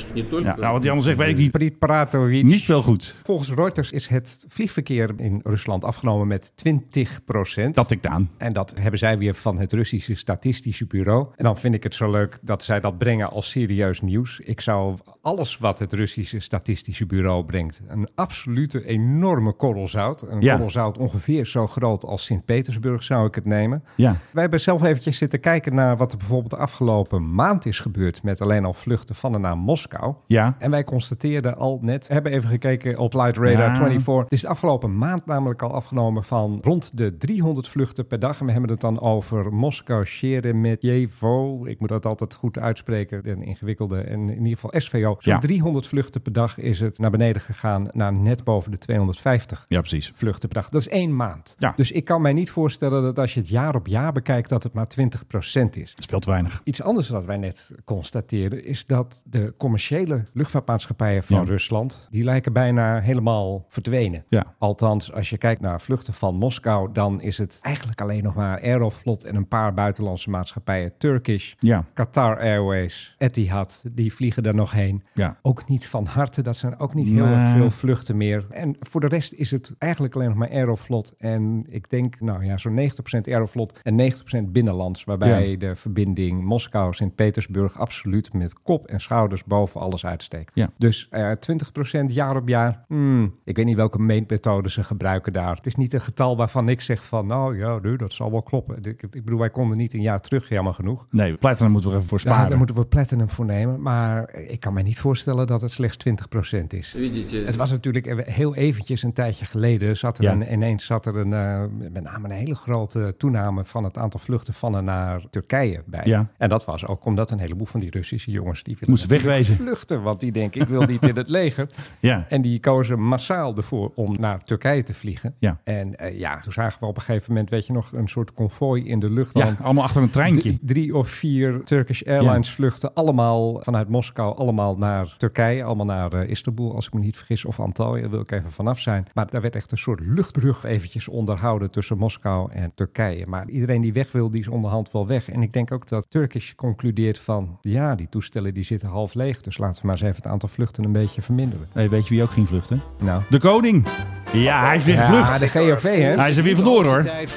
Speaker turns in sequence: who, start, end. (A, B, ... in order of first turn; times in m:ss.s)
0:00.4-0:01.6 A
0:01.2-0:56.0 B
0:02.4-0:03.2 A
0:07.8-0:08.3 A
0:20.4-0:20.7 A
0:30.3-0:30.6 A
0:33.4-0:34.1 A
0:49.7-0:50.1 A
0:56.0-0:56.6 A
0:56.6-1:41.1 B
1:17.0-1:17.8 A
1:25.2-1:25.5 A
1:41.1-1:42.7 A
1:42.2-2:01.7 B
1:58.9-1:59.6 A
2:00.8-2:01.1 A
2:02.0-2:02.3 A
2:02.3-2:09.6 B
2:09.4-2:10.6 A
2:10.2-2:31.7 B
2:31.8-2:35.6 A
2:33.0-2:33.3 B
2:34.9-2:37.1 B
2:36.1-2:37.1 A